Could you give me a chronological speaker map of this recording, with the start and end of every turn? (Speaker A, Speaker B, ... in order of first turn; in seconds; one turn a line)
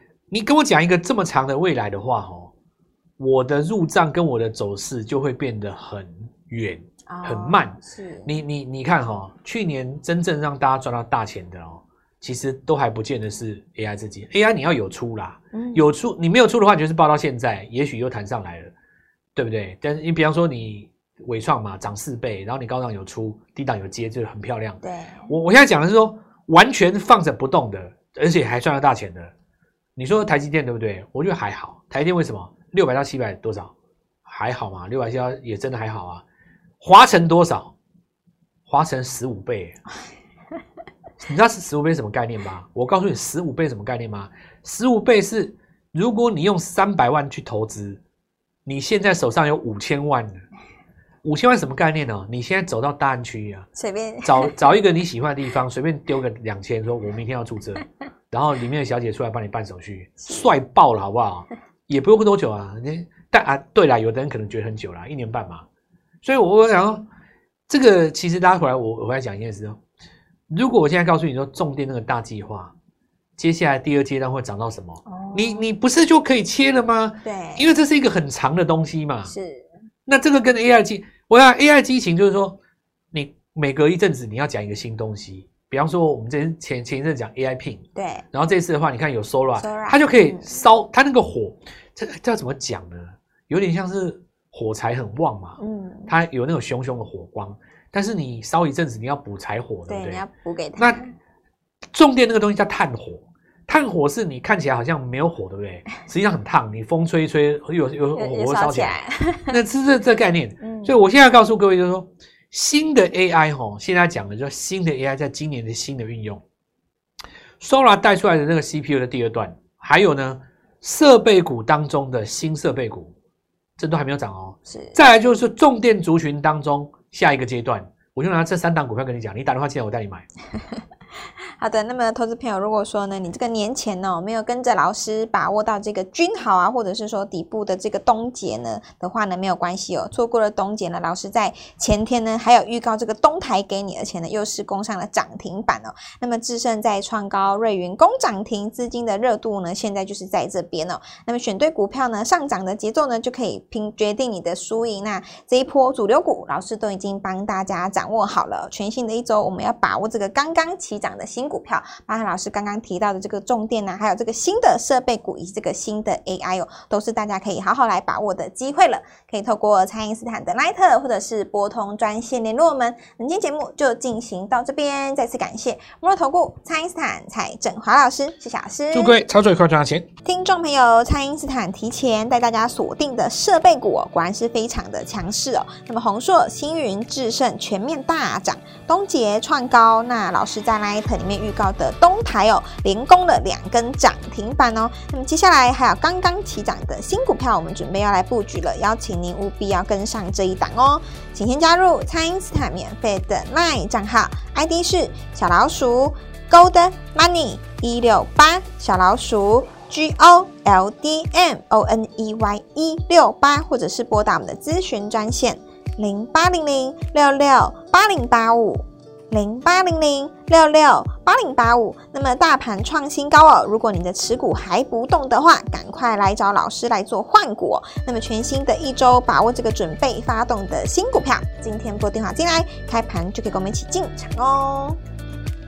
Speaker A: 0.3-2.5
Speaker A: 3.2-18.7
Speaker B: 7.1-8.3
Speaker B: 15.5-15.9
Speaker A: 19.4-29.3
Speaker B: 24.8-25.4
Speaker A: 30.0-33.7
Speaker A: 34.3-36.2
Speaker A: 36.8-37.7
Speaker A: 38.7-39.8
Speaker A: 41.3-48.0
Speaker A: 48.6-50.4
Speaker A: 51.2-53.7
Speaker B: 53.8-54.5
Speaker A: 54.2-65.6
Speaker A: 66.2-67.0
Speaker A: 67.7-69.8
Speaker A: 70.5-72.7
Speaker A: 73.4-79.3
Speaker B: 75.1-75.7
Speaker B: 77.2-77.8
Speaker B: 79.3-79.7
Speaker A: 80.1-82.6
Speaker A: 83.1-100.2
Speaker B: 88.0-88.2
Speaker B: 89.6-90.6
Speaker B: 95.6-96.1
Speaker B: 99.9-101.1
Speaker A: 100.8-101.0
Speaker A: 101.9-116.4
Speaker B: 108.2-109.6
Speaker B: 110.6-111.0
Speaker A: 117.6-123.1
Speaker A: 123.8-130.2
Speaker B: 124.7-125.0
Speaker B: 131.6-179.2
Speaker A: 178.9-180.1
Speaker B: 180.2-235.0